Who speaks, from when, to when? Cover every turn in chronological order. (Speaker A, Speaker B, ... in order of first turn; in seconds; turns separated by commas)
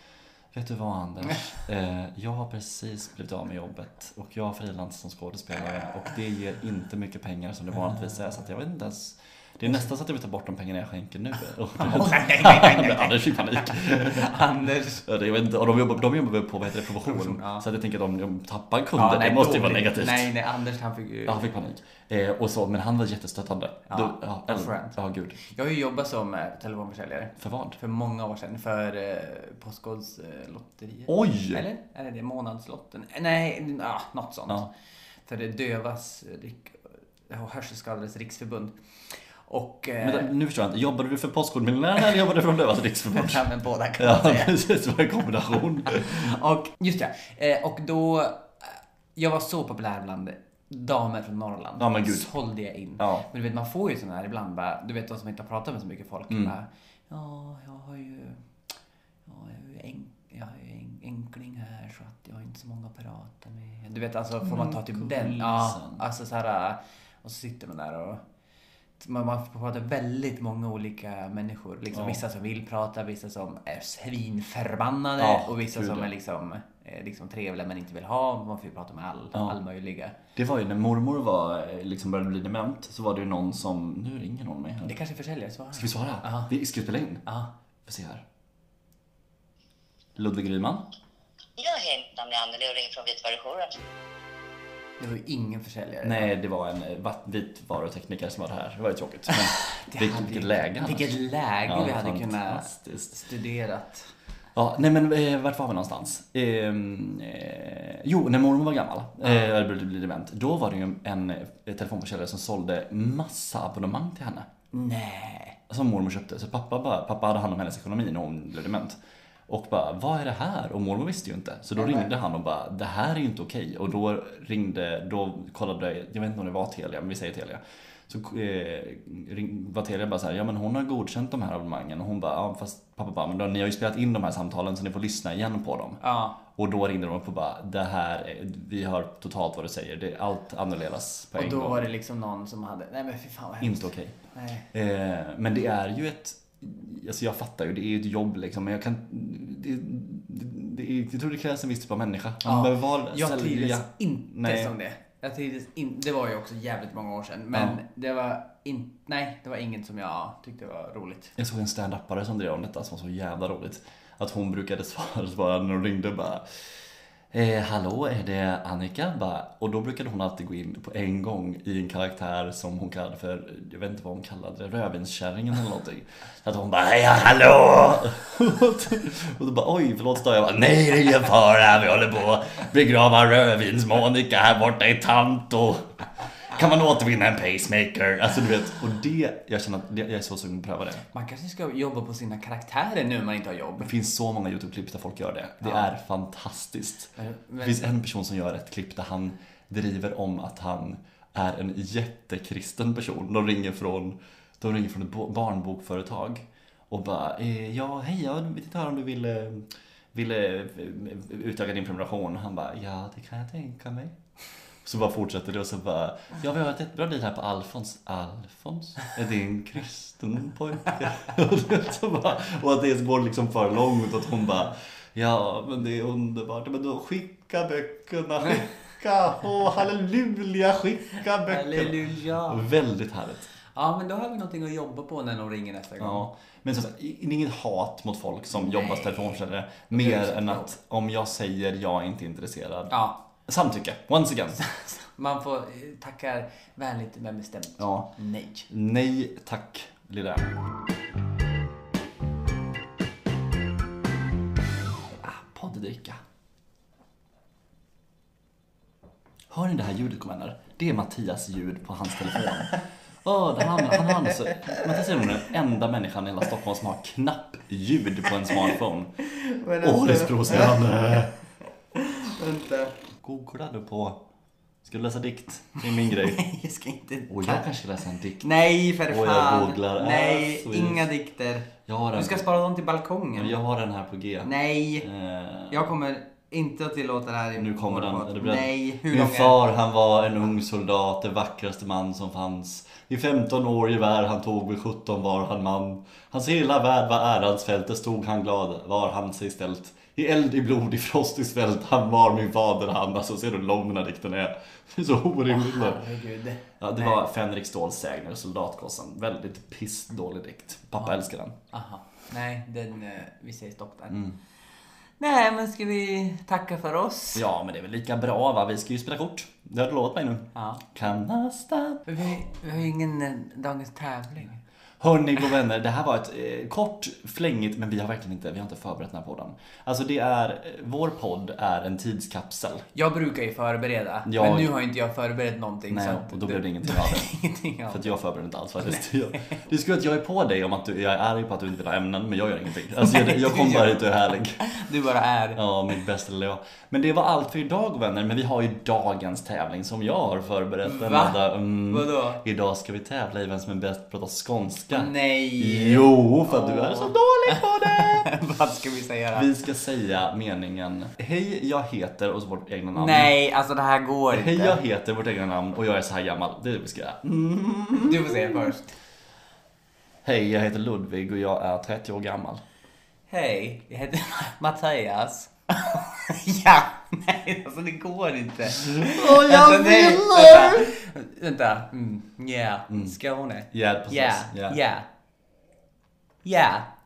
Speaker A: 0.5-14.4, Speaker B: 11.8-15.1, Speaker A: 15.0-20.3, Speaker B: 17.0-17.6, Speaker B: 19.0-21.4, Speaker A: 21.3-25.4, Speaker B: 23.9-34.7, Speaker A: 27.4-27.8, Speaker A: 31.1-31.6, Speaker B: 35.3-38.8, Speaker B: 39.5-40.3, Speaker A: 40.0-43.4, Speaker B: 43.1-44.6, Speaker A: 44.0-46.4, Speaker B: 46.0-58.4, Speaker A: 51.8-52.3, Speaker A: 53.0-53.2, Speaker B: 59.3-68.2, Speaker A: 64.4-66.0, Speaker B: 69.0-80.2, Speaker A: 71.9-72.2, Speaker A: 75.2-76.1, Speaker A: 80.4-85.0, Speaker B: 84.8-86.5, Speaker A: 85.7-87.2, Speaker B: 87.3-87.5, Speaker A: 87.8-88.2, Speaker A: 90.2-90.8, Speaker C: 91.6-93.8, Speaker B: 95.0-96.3, Speaker A: 96.0-101.1, Speaker B: 99.3-104.1, Speaker A: 101.7-103.2, Speaker A: 104.5-114.5, Speaker B: 114.7-115.6, Speaker A: 115.7-119.0, Speaker A: 119.5-141.9, Speaker B: 121.8-122.1, Speaker B: 136.0-136.4, Speaker B: 141.4-144.7, Speaker A: 143.6-144.2, Speaker A: 144.7-154.7, Speaker B: 152.4-161.4, Speaker A: 157.5-157.8, Speaker A: 161.4-166.5, Speaker A: 167.3-191.0, Speaker B: 191.1-193.9, Speaker A: 193.8-214.2, Speaker B: 195.6-195.9, Speaker B: 197.2-197.9, Speaker A: 214.8-233.5, Speaker B: 231.4-232.7, Speaker B: 233.8-236.3, Speaker A: 236.0-244.6, Speaker B: 238.5-239.4, Speaker B: 239.9-240.7, Speaker B: 242.9-243.2, Speaker B: 244.6-248.7, Speaker A: 247.8-248.1, Speaker A: 248.7-250.6, Speaker A: 255.2-256.2, Speaker A: 259.5-269.1, Speaker B: 264.3-264.8, Speaker B: 268.6-271.1, Speaker A: 269.8-271.4, Speaker B: 271.9-273.0, Speaker A: 273.2-274.2, Speaker A: 274.8-276.4, Speaker B: 275.8-277.7, Speaker A: 277.3-278.5, Speaker B: 278.4-283.6, Speaker A: 279.1-281.1, Speaker A: 281.9-282.5, Speaker A: 283.4-285.9, Speaker B: 284.4-285.1, Speaker B: 285.7-289.6, Speaker A: 287.6-306.1, Speaker B: 305.5-307.2, Speaker A: 306.8-311.6, Speaker B: 311.0-314.3, Speaker B: 315.2-317.4, Speaker A: 317.3-322.1, Speaker B: 320.6-320.9, Speaker B: 322.1-324.6, Speaker A: 325.0-332.9, Speaker B: 332.9-338.1, Speaker A: 334.3-334.7, Speaker A: 335.9-337.3, Speaker A: 337.9-344.6, Speaker B: 338.8-339.6, Speaker B: 343.0-345.6, Speaker A: 345.6-358.3, Speaker B: 350.8-352.4, Speaker B: 354.9-359.5, Speaker A: 359.3-363.3, Speaker B: 362.9-364.8, Speaker A: 364.3-368.7, Speaker B: 368.0-368.9, Speaker A: 370.2-372.6, Speaker B: 373.3-385.1, Speaker A: 378.7-380.9, Speaker A: 382.9-383.2, Speaker A: 383.7-384.8, Speaker B: 386.4-386.9